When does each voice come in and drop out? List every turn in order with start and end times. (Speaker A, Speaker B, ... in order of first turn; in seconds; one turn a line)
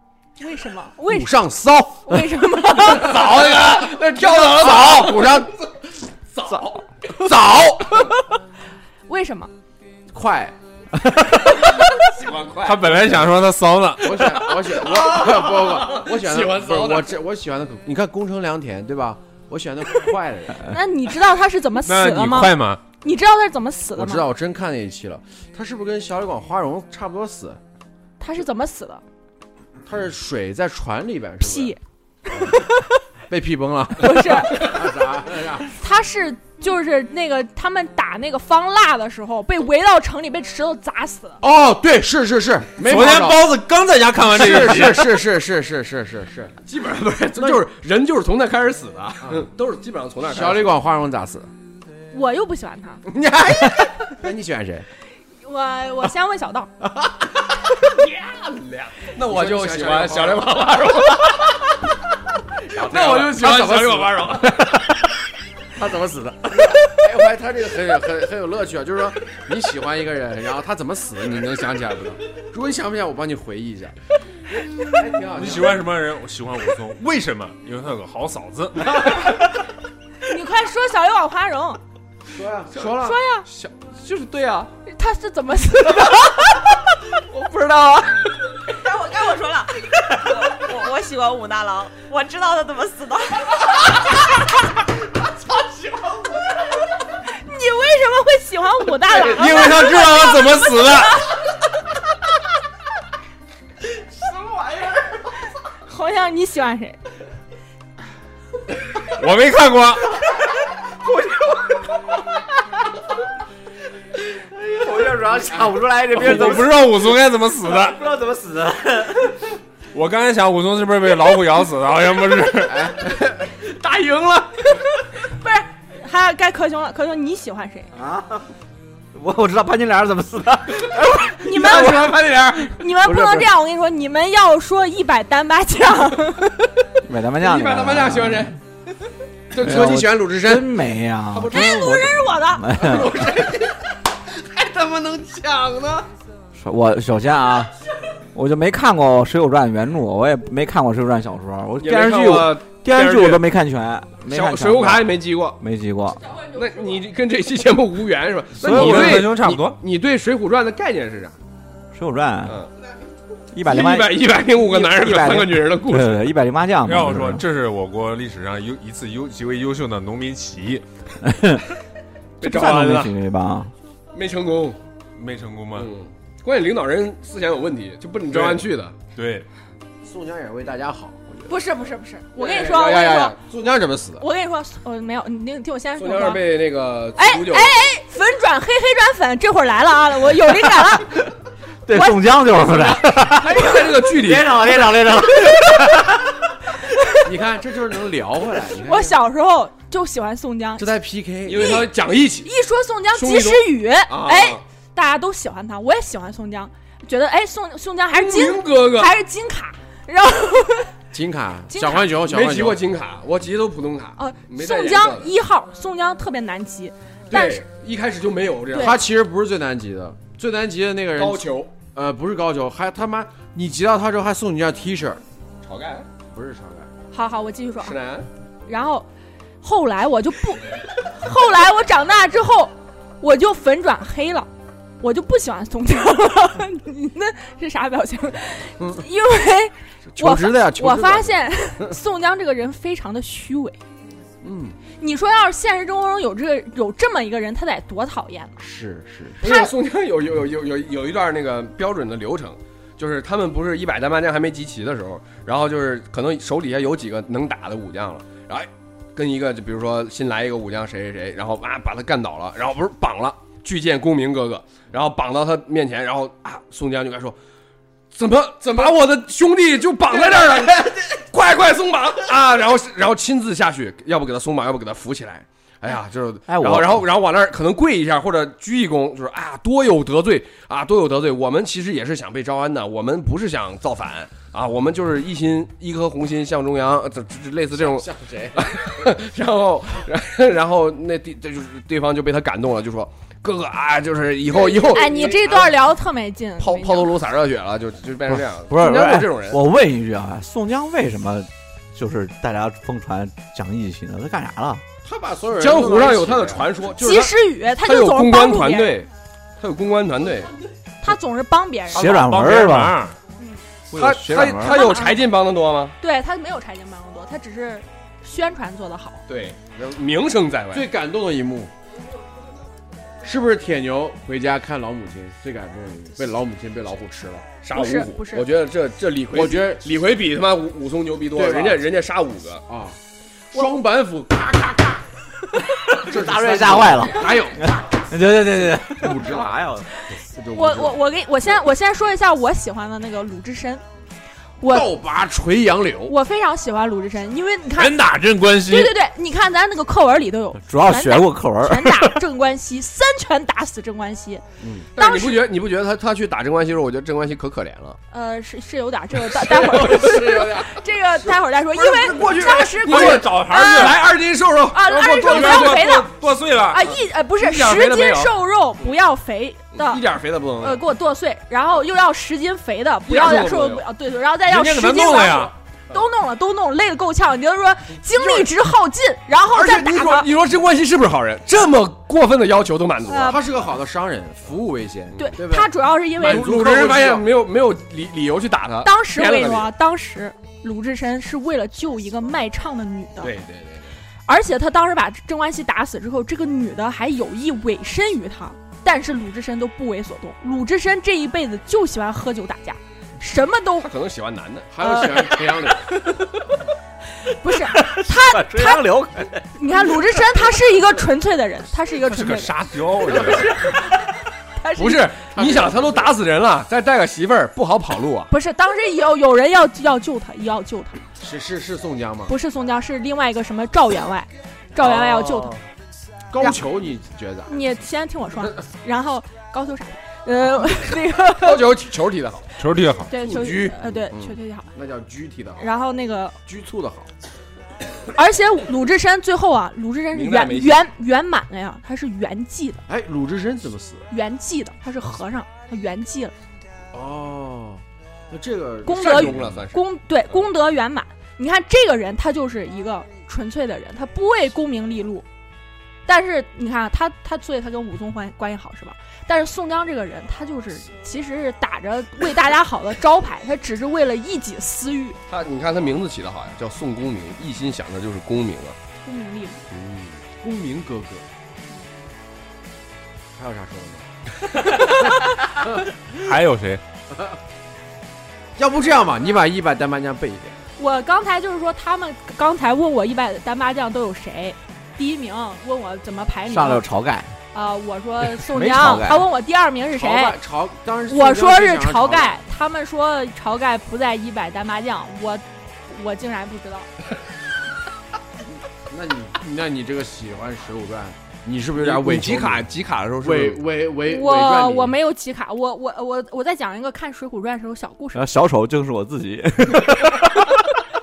Speaker A: 0.4-1.3
Speaker B: 1.1-2.3
Speaker A: 2.0-3.1
Speaker B: 2.8-5.5
Speaker C: 2.9-5.6
Speaker C: 6.3-7.7
Speaker B: 7.2-8.1
Speaker A: 9.1-9.5
Speaker B: 10.1-10.5
Speaker C: 11.9-13.2
Speaker D: 12.6-14.6
Speaker B: 14.0-20.7
Speaker C: 14.7-17.2
Speaker A: 20.6-24.2
Speaker D: 21.8-22.8
Speaker B: 23.9-27.6
Speaker A: 28.2-29.0
Speaker B: 29.9-31.8
Speaker A: 31.4-31.8
Speaker A: 32.4-32.9
Speaker B: 33.3-35.7
Speaker A: 34.0-34.7
Speaker A: 35.8-41.4
Speaker B: 41.4-43.5
Speaker D: 42.8-45.2
Speaker B: 44.3-46.6
Speaker C: 46.6-50.8
Speaker B: 50.2-51.5
Speaker A: 52.1-53.0
Speaker C: 53.1-53.5
Speaker B: 53.1-54.9
Speaker A: 55.4-56.7
Speaker C: 57.8-61.7
Speaker B: 59.3-60.5
Speaker C: 62.7-64.8
Speaker B: 62.7-64.4
Speaker B: 65.8-73.9
Speaker B: 74.6-75.8
Speaker D: 75.3-79.3
Speaker A: 80.2-81.8
Speaker B: 82.3-83.2
Speaker A: 83.0-83.5
Speaker C: 83.5-84.7
Speaker A: 84.8-86.7
Speaker E: 88.7-93.7
Speaker A: 97.3-101.2
Speaker B: 99.1-99.8
Speaker D: 99.3-101.2
Speaker B: 104.4-104.8
Speaker A: 105.9-107.0
Speaker D: 109.0-110.2
Speaker F: 111.0-111.7
Speaker F: 114.3-116.8
Speaker D: 116.1-118.0
Speaker F: 117.8-119.3
Speaker D: 119.9-123.0
Speaker B: 122.8-124.4
Speaker A: 124.8-127.9
Speaker F: 127.9-128.5
Speaker F: 129.1-132.3
Speaker B: 131.3-132.7
Speaker A: 131.3-136.7
Speaker F: 132.9-133.5
Speaker F: 137.0-138.5
Speaker C: 137.4-138.6
Speaker C: 139.5-139.9
Speaker B: 139.6-140.7
Speaker F: 139.6-143.2
Speaker C: 141.3-141.8
Speaker A: 141.5-142.7
Speaker C: 142.7-146.1
Speaker F: 146.5-147.7
Speaker F: 148.3-156.2
Speaker C: 151.8-153.4
Speaker C: 154.2-155.6
Speaker C: 156.5-161.3
Speaker F: 158.6-159.3
Speaker D: 158.6-159.8
Speaker F: 161.9-162.6
Speaker C: 162.4-162.7
Speaker F: 163.5-167.4
Speaker C: 163.6-166.3
Speaker D: 166.8-170.8
Speaker F: 171.2-171.7
Speaker C: 172.4-173.1
Speaker F: 172.4-173.7
Speaker C: 174.1-174.8
Speaker D: 175.2-175.9
Speaker C: 175.7-178.9
Speaker D: 178.3-179.5
Speaker B: 180.0-181.5
Speaker A: 181.5-183.3
Speaker C: 182.3-183.3
Speaker B: 182.6-184.2
Speaker A: 184.2-186.5
Speaker C: 186.0-187.8
Speaker A: 187.2-191.2
Speaker F: 191.8-196.1
Speaker A: 191.9-192.2
Speaker C: 192.6-194.5
Speaker B: 194.5-194.9
Speaker A: 196.8-197.2
Speaker B: 197.2-199.2
Speaker A: 198.8-200.9
Speaker B: 200.8-201.9
Speaker C: 201.4-202.5
Speaker A: 201.6-201.9
Speaker A: 202.4-210.9
Speaker C: 203.1-204.6
Speaker C: 208.1-209.1
Speaker B: 211.1-212.8
Speaker A: 211.7-212.1
Speaker C: 212.2-215.3
Speaker A: 214.2-217.6
Speaker C: 217.3-219.1
Speaker A: 218.7-219.0
Speaker B: 218.7-225.2
Speaker C: 221.1-221.7
Speaker C: 225.6-226.1
Speaker B: 226.2-226.9
Speaker A: 227.1-227.9
Speaker C: 227.8-228.3
Speaker A: 228.7-229.1
Speaker A: 229.6-234.5
Speaker A: 235.0-243.8
Speaker B: 240.1-241.9
Speaker B: 244.4-244.8
Speaker A: 245.0-248.6
Speaker B: 248.6-249.4
Speaker A: 249.4-249.7
Speaker C: 249.4-267.4
Speaker C: 268.1-295.7
Speaker F: 276.5-277.1
Speaker B: 287.8-288.8
Speaker B: 294.5-295.6
Speaker A: 294.9-297.1
Speaker C: 296.6-299.6
Speaker F: 298.3-304.8
Speaker B: 305.0-306.7
Speaker C: 305.6-309.1
Speaker A: 307.0-308.9
Speaker C: 309.6-310.5
Speaker A: 311.0-312.0
Speaker F: 311.9-312.9
Speaker D: 311.9-313.1
Speaker F: 313.9-314.8
Speaker C: 313.9-315.9
Speaker A: 314.6-315.3
Speaker A: 316.0-319.2
Speaker C: 319.3-320.9
Speaker B: 320.7-321.7
Speaker B: 323.2-327.5
Speaker C: 327.6-332.6
Speaker A: 327.7-328.5
Speaker B: 329.3-329.9
Speaker B: 331.3-331.8
Speaker B: 332.7-333.0
Speaker B: 333.5-335.0
Speaker B: 335.9-337.8
Speaker F: 336.0-339.9
Speaker B: 339.0-341.0
Speaker A: 340.5-343.8
Speaker A: 344.6-344.9
Speaker B: 344.6-346.1
Speaker A: 346.1-348.0
Speaker D: 347.8-348.9
Speaker A: 348.6-354.4
Speaker F: 350.6-352.2
Speaker B: 354.6-354.9
Speaker C: 354.9-358.0
Speaker A: 355.0-355.5
Speaker A: 358.1-364.0
Speaker B: 359.4-360.8
Speaker B: 361.7-362.9
Speaker C: 362.8-366.0
Speaker D: 362.8-364.0
Speaker A: 364.7-366.1
Speaker D: 365.2-366.9
Speaker A: 366.7-370.0
Speaker C: 367.4-368.3
Speaker C: 369.7-370.8
Speaker A: 370.6-380.3
Speaker C: 373.1-373.9
Speaker D: 374.4-375.5
Speaker C: 378.1-378.5
Speaker C: 379.5-383.4
Speaker A: 383.1-383.4
Speaker B: 383.2-387.3
Speaker A: 385.2-386.5
Speaker C: 386.2-389.7
Speaker A: 388.8-393.3
Speaker C: 393.2-394.0
Speaker A: 394.3-403.9
Speaker C: 403.8-404.7
Speaker B: 404.7-406.0
Speaker A: 404.8-405.4
Speaker A: 407.2-408.9
Speaker F: 407.5-409.5
Speaker A: 409.5-412.5
Speaker D: 412.1-413.7
Speaker A: 413.1-415.1
Speaker C: 414.8-418.3
Speaker B: 415.1-416.1
Speaker A: 418.3-421.0
Speaker B: 421.2-422.3
Speaker A: 422.3-425.6
Speaker B: 424.9-425.4
Speaker B: 426.3-427.5
Speaker A: 427.4-431.7
Speaker C: 431.4-432.4
Speaker D: 432.6-433.1
Speaker A: 433.1-434.7
Speaker B: 433.1-435.6
Speaker A: 435.6-436.4
Speaker B: 436.4-437.1
Speaker A: 438.1-442.8
Speaker C: 440.1-440.9
Speaker B: 442.9-444.1
Speaker A: 444.1-446.3
Speaker B: 446.9-449.6
Speaker A: 448.8-455.2
Speaker C: 448.8-450.3
Speaker A: 456.1-465.2
Speaker C: 465.3-468.8
Speaker A: 469.0-469.6
Speaker C: 469.7-470.2
Speaker B: 470.4-471.2
Speaker B: 473.4-474.1
Speaker B: 474.7-475.9
Speaker D: 476.1-476.8
Speaker B: 477.1-477.4
Speaker B: 478.6-480.6
Speaker A: 480.8-486.9
Speaker F: 486.5-487.4
Speaker A: 487.5-490.4
Speaker F: 488.2-489.2
Speaker B: 489.9-492.4
Speaker A: 491.1-496.9
Speaker B: 498.9-502.7
Speaker C: 501.8-503.7
Speaker B: 503.2-504.9
Speaker A: 504.0-508.2
Speaker F: 508.1-510.6